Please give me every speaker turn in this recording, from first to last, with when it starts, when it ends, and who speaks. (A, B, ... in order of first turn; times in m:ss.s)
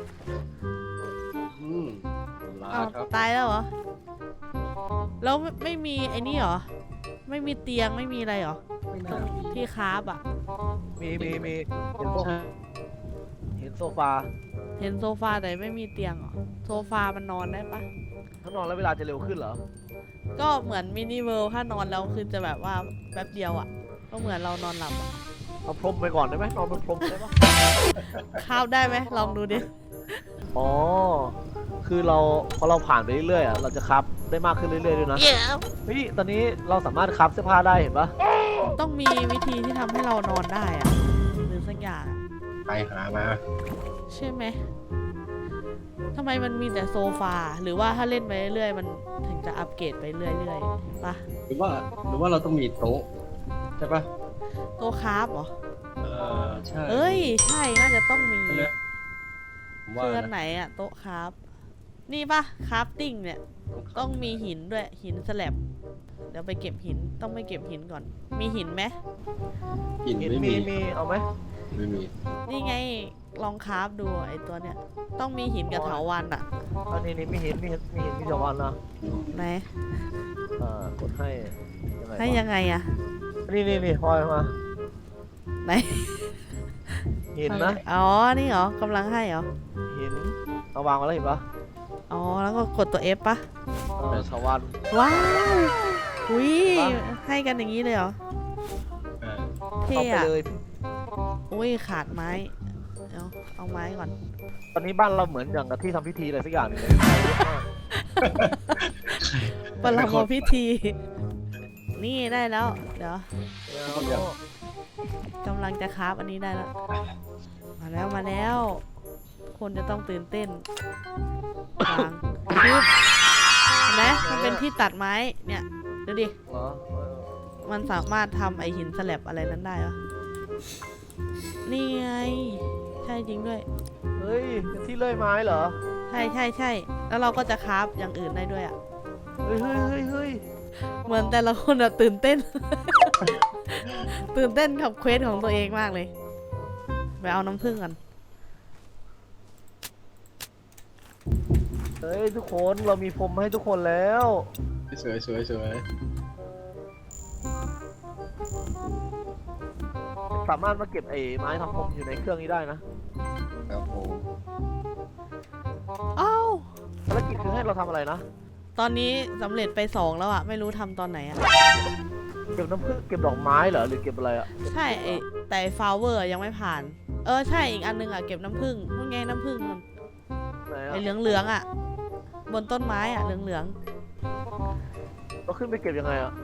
0:01.5-0:03.1 A
0:02.7-0:03.7 B
0:05.2-0:06.7 B
0:07.3-0:10.2 B
0:08.9-0:09.7 A
0:11.0-0:12.3 C
0:11.2-0:11.6 A
0:12.1-0:12.5 A
0:13.6-0:14.3 C
0:14.8-0:17.8 B
0:18.4-0:19.6 C
0:20.4-0:25.1 B
0:25.7-0:27.4 C
0:28.0-0:28.4 A
0:28.4-0:29.7 B
0:30.5-0:35.3 C
0:35.9-0:38.1 C
0:38.8-0:42.2 B
0:42.7-0:43.4 A
0:44.1-0:44.6 B
0:46.1-0:51.2 B
0:51.5-0:53.1 A
0:53.8-0:54.1 A
0:54.8-0:55.5 B
0:56.0-0:57.4 A
0:56.9-0:58.7 B
0:58.5-0:58.7 A
0:59.8-1:00.3 A
1:00.0-1:01.4 B
1:02.1-1:03.4 B
1:03.7-1:04.4 A
1:03.9-1:05.6 B
1:06.3-1:08.9 B
1:10.0-1:10.7 A
1:10.2-1:11.2 C
1:11.7-1:12.1 A
1:12.5-1:16.4 B
1:15.7-1:16.0 C
1:16.9-1:18.8 C
1:19.0-1:19.4 A
1:19.3-1:19.7 B
1:20.6-1:22.4 C
1:22.2-1:22.9 B
1:23.5-1:24.5 C
1:25.6-1:26.3 B
1:27.3-1:27.8 C
1:27.5-1:29.5 B
1:29.9-1:31.4 C
1:32.1-1:33.4 B
1:34.0-1:35.5 C
1:34.9-1:38.1 B
1:36.6-1:37.0 C
1:39.2-1:39.5 A
1:39.8-1:40.3 B
1:39.9-1:40.6 C
1:41.5-1:42.5 B
1:43.1-1:44.1 B
1:44.7-1:47.6 C
1:48.2-1:50.5 A
1:48.5-1:48.8 B
1:49.8-1:51.0 B
1:52.0-1:53.2 B
1:53.7-1:54.4 C
1:53.9-1:54.3 A
1:55.4-1:56.7 B
1:57.8-1:58.8 B
1:59.5-2:00.6 B
2:01.8-2:02.9 B
2:03.9-2:06.3 B
2:04.2-2:04.6 C
2:06.5-2:07.3 C
2:07.6-2:10.0 B
2:11.6-2:13.6 B
2:14.2-2:15.8 C
2:16.1-2:18.8 B
2:19.4-2:20.4 C
2:21.0-2:26.1 B
2:27.2-2:28.0 B
2:32.0-2:34.5 C
2:34.9-2:35.8 A
2:38.8-2:39.2 A
2:40.3-2:42.8 C
2:43.7-2:44.3 A
2:46.2-2:46.7 B
2:47.1-2:48.2 C
2:48.8-2:51.4 B
2:52.5-2:55.2 C
2:54.7-2:59.8 B
3:00.7-3:01.4 C
3:00.9-3:01.6 B
3:02.5-3:03.7 B
3:05.5-3:06.3 C